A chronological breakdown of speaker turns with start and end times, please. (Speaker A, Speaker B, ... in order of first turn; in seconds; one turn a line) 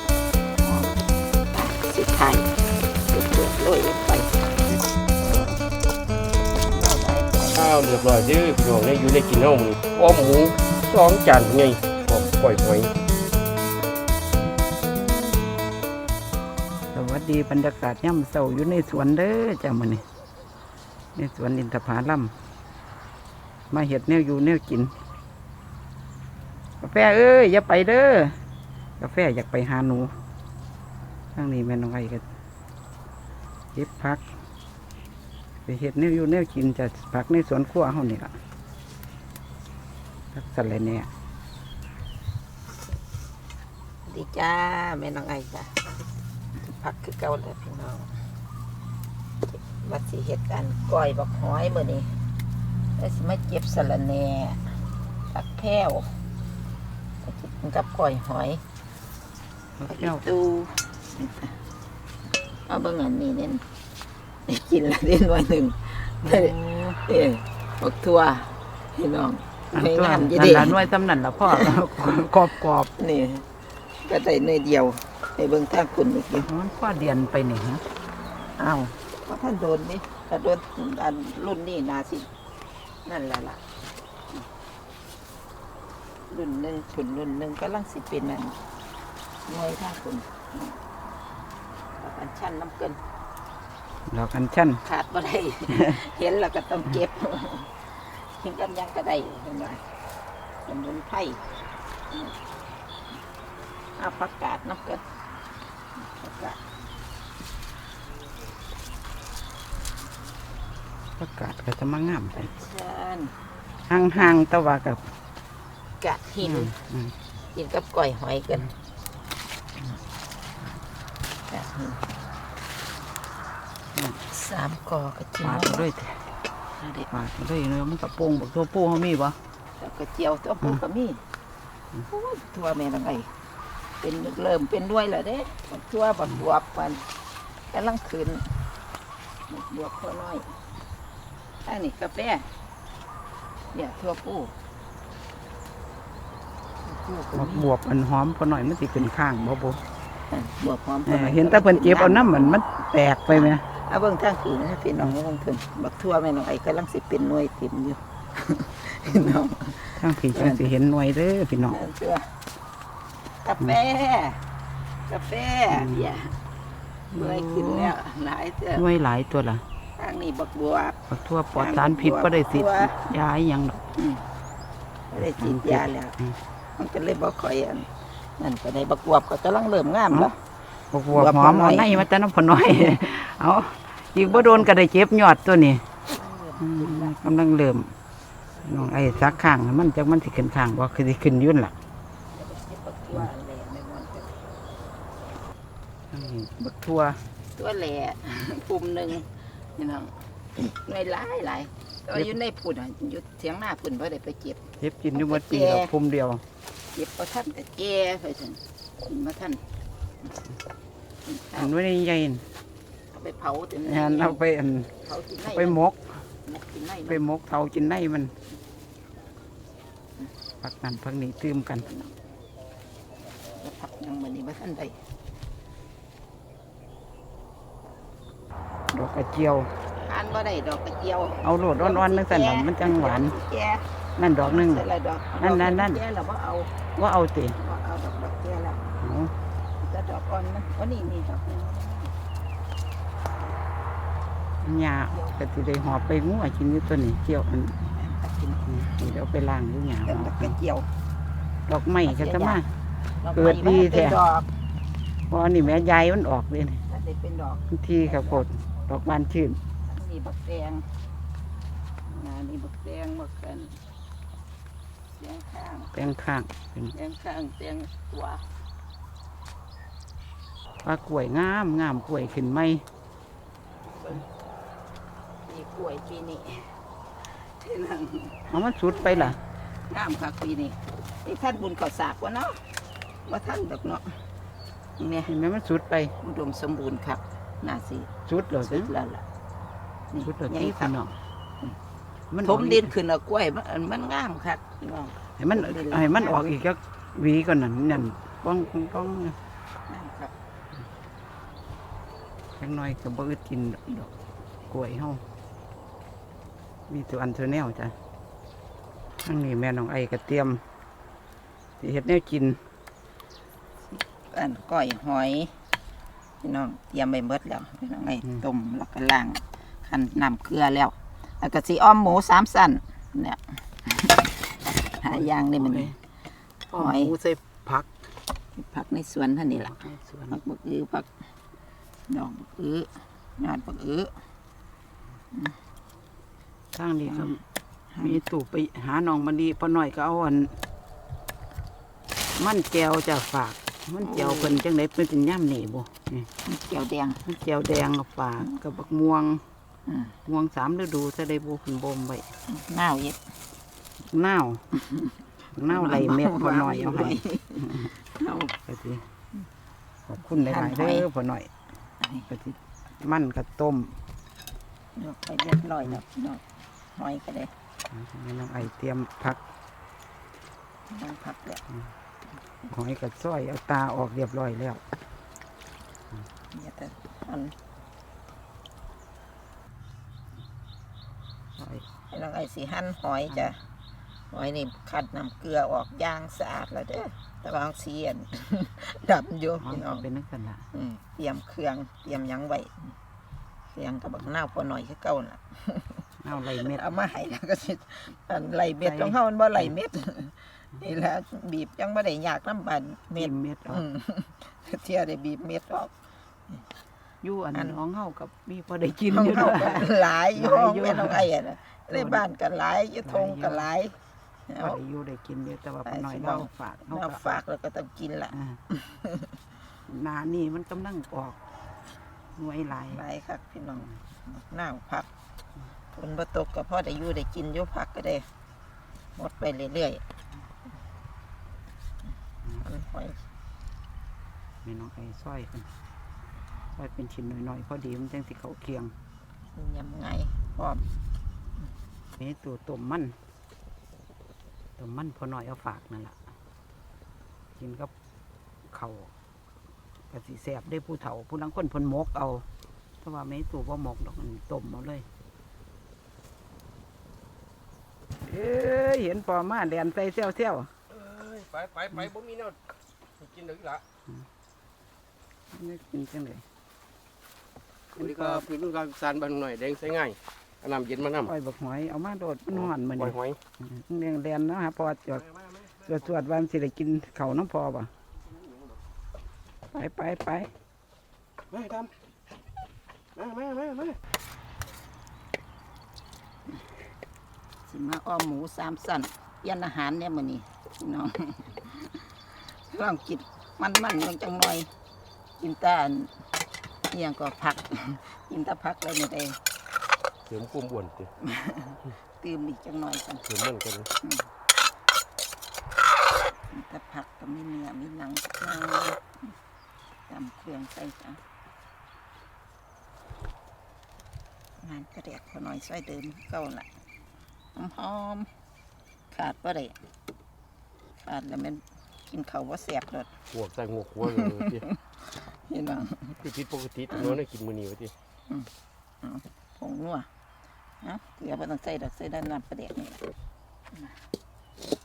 Speaker A: 0.6-2.5
Speaker A: 3.1-4.3
Speaker A: 5.2-5.6
Speaker A: 6.5-7.7
Speaker B: 7.5-12.9
Speaker C: 16.9-20.0
Speaker C: 21.1-22.3
Speaker C: 23.7-24.9
Speaker C: 26.8-28.4
Speaker C: 29.0-30.1
Speaker C: 31.4-32.2
Speaker C: 33.8-34.3
Speaker C: 35.7-38.4
Speaker C: 40.3-41.1
Speaker A: 44.0-45.8
Speaker A: 46.6-48.1
Speaker A: 49.5-52.1
Speaker A: 53.0-54.6
Speaker A: 55.3-56.1
Speaker A: 57.2-58.6
Speaker C: 59.8-60.2
Speaker A: 59.9-61.6
Speaker A: 62.7-63.6
Speaker A: 64.5-70.8
Speaker C: 66.2-67.0
Speaker C: 69.7-72.9
Speaker A: 71.5-71.8
Speaker A: 73.0-73.5
Speaker A: 74.0-76.5
Speaker C: 76.4-77.8
Speaker A: 78.6-82.3
Speaker A: 83.0-83.6
Speaker A: 86.3-88.6
Speaker A: 89.5-90.8
Speaker A: 92.0-93.0
Speaker C: 94.1-94.8
Speaker A: 94.8-99.8
Speaker C: 95.7-96.0
Speaker A: 100.7-101.4
Speaker A: 102.1-102.4
Speaker A: 104.0-105.0
Speaker A: 106.0-106.6
Speaker C: 111.2-112.5
Speaker A: 112.3-113.4
Speaker C: 113.9-115.1
Speaker A: 114.0-114.3
Speaker A: 116.0-116.7
Speaker C: 116.4-117.2
Speaker A: 117.5-118.7
Speaker A: 121.5-122.0
Speaker C: 124.0-124.2
Speaker A: 124.2-125.9
Speaker C: 125.4-126.2
Speaker A: 126.8-127.1
Speaker C: 127.1-129.4
Speaker A: 129.8-131.2
Speaker A: 132.0-133.3
Speaker A: 134.0-137.1
Speaker A: 137.7-138.7
Speaker A: 139.5-140.5
Speaker A: 141.7-142.5
Speaker A: 143.7-144.5
Speaker A: 146.8-147.7
Speaker C: 147.3-149.8
Speaker A: 150.3-152.6
Speaker C: 151.1-153.7
Speaker A: 153.3-160.7
Speaker C: 160.0-161.9
Speaker A: 161.6-162.3
Speaker A: 163.4-164.4
Speaker A: 165.1-166.4
Speaker C: 165.7-166.1
Speaker C: 167.1-167.9
Speaker A: 167.1-168.9
Speaker C: 168.8-169.6
Speaker A: 170.0-171.0
Speaker C: 171.1-173.8
Speaker A: 171.5-173.0
Speaker A: 174.0-174.2
Speaker A: 175.1-176.2
Speaker C: 175.4-176.4
Speaker A: 176.8-180.4
Speaker C: 180.9-185.8
Speaker A: 181.1-182.1
Speaker A: 184.3-184.7
Speaker A: 186.1-187.2
Speaker C: 186.6-187.9
Speaker A: 188.6-189.4
Speaker C: 188.6-191.8
Speaker A: 192.3-194.4
Speaker C: 196.1-197.2
Speaker A: 197.5-204.6
Speaker C: 204.8-206.4
Speaker A: 205.1-205.9
Speaker A: 206.9-209.6
Speaker A: 211.3-211.7
Speaker C: 211.6-212.5
Speaker A: 213.1-214.4
Speaker C: 213.8-214.9
Speaker A: 215.0-215.8
Speaker C: 215.5-216.2
Speaker A: 216.4-217.2
Speaker C: 217.1-218.3
Speaker C: 220.6-221.9
Speaker A: 221.9-222.1
Speaker A: 223.5-225.0
Speaker C: 228.9-229.7
Speaker A: 229.9-233.9
Speaker C: 231.4-233.4
Speaker C: 234.2-234.9
Speaker A: 234.4-236.8
Speaker C: 235.4-236.0
Speaker C: 237.0-237.6
Speaker A: 237.6-238.9
Speaker C: 239.0-239.3
Speaker A: 239.8-242.2
Speaker C: 244.6-247.8
Speaker A: 245.1-245.4
Speaker A: 247.8-248.9
Speaker C: 248.7-250.6
Speaker A: 250.1-250.9
Speaker C: 251.7-252.7
Speaker A: 252.1-252.6
Speaker A: 253.2-254.6
Speaker C: 253.3-254.2
Speaker C: 255.3-256.8
Speaker A: 256.9-258.5
Speaker C: 257.7-259.6
Speaker A: 259.8-260.9
Speaker A: 262.1-263.8
Speaker A: 265.1-265.9
Speaker C: 265.9-266.9
Speaker A: 266.9-268.4
Speaker C: 270.8-272.9
Speaker A: 274.0-274.3
Speaker A: 275.5-282.6
Speaker C: 278.5-279.4
Speaker A: 283.3-284.2
Speaker A: 285.0-285.3
Speaker C: 285.3-286.1
Speaker A: 286.2-289.2
Speaker C: 288.3-288.9
Speaker A: 290.1-291.0
Speaker C: 290.2-291.1
Speaker C: 292.3-292.9
Speaker A: 292.4-296.4
Speaker C: 295.4-299.4
Speaker A: 299.9-300.3
Speaker C: 302.6-304.1
Speaker C: 304.7-305.2
Speaker C: 306.9-307.9
Speaker C: 309.2-310.6
Speaker C: 311.8-312.6
Speaker A: 314.0-315.6
Speaker A: 316.4-324.3
Speaker A: 325.0-325.9
Speaker C: 325.0-326.0
Speaker A: 326.7-327.2
Speaker C: 326.7-328.1
Speaker A: 328.6-329.7
Speaker C: 329.5-330.4
Speaker A: 330.3-331.1
Speaker A: 332.1-334.1
Speaker C: 336.7-337.4
Speaker A: 337.1-337.4
Speaker A: 337.9-338.2
Speaker C: 338.0-340.6
Speaker C: 342.4-346.3
Speaker A: 344.0-344.6
Speaker A: 346.4-347.2
Speaker C: 347.2-349.4
Speaker A: 349.9-350.2
Speaker C: 350.3-352.3
Speaker A: 352.5-353.2
Speaker C: 354.1-354.6
Speaker C: 355.5-357.9
Speaker A: 355.7-358.6
Speaker C: 358.6-359.1
Speaker C: 360.1-361.5
Speaker A: 360.4-361.1
Speaker A: 362.0-362.3
Speaker C: 362.3-364.0
Speaker A: 365.0-366.4
Speaker A: 366.9-367.5
Speaker C: 367.9-369.4
Speaker A: 370.9-371.6
Speaker C: 372.7-374.8
Speaker A: 376.5-377.6
Speaker C: 381.6-381.9
Speaker A: 382.0-383.6
Speaker C: 383.3-383.5
Speaker A: 384.3-390.1
Speaker C: 389.6-390.7
Speaker A: 390.7-392.9
Speaker A: 393.7-406.6
Speaker C: 396.2-397.0
Speaker C: 398.8-399.7
Speaker C: 403.1-403.9
Speaker C: 407.2-411.3
Speaker A: 407.5-407.8
Speaker A: 409.1-414.0
Speaker C: 411.9-412.2
Speaker C: 413.0-413.7
Speaker A: 414.5-414.8
Speaker C: 414.6-417.4
Speaker A: 415.9-419.3
Speaker C: 418.3-418.6
Speaker C: 419.9-421.4
Speaker C: 422.4-423.0
Speaker A: 422.9-425.1
Speaker A: 425.9-428.3
Speaker A: 429.2-430.0
Speaker A: 432.5-433.2
Speaker C: 434.6-435.7
Speaker C: 436.8-438.9
Speaker A: 439.6-440.9
Speaker C: 442.2-443.2
Speaker C: 444.8-446.2
Speaker C: 447.6-447.9
Speaker C: 448.7-449.1
Speaker C: 450.1-452.5
Speaker C: 453.0-455.1
Speaker C: 458.2-460.7
Speaker B: 460.9-462.6
Speaker B: 463.2-463.8
Speaker C: 465.5-466.4
Speaker B: 467.9-471.3
Speaker C: 468.0-468.5
Speaker C: 471.2-477.9
Speaker B: 472.5-473.4
Speaker C: 479.7-480.5
Speaker B: 481.5-481.9
Speaker B: 483.1-484.0
Speaker A: 487.7-494.7
Speaker A: 495.4-496.2
Speaker A: 496.9-499.4
Speaker B: 500.3-501.1
Speaker A: 501.2-503.2
Speaker B: 503.2-503.9
Speaker A: 506.5-509.1
Speaker A: 510.1-511.2
Speaker A: 514.6-516.7
Speaker A: 517.6-518.3
Speaker A: 519.1-519.8
Speaker A: 521.0-523.1
Speaker B: 523.3-524.7
Speaker A: 524.1-526.2
Speaker B: 526.2-527.9
Speaker A: 526.9-527.2
Speaker A: 529.0-530.1
Speaker A: 530.8-533.0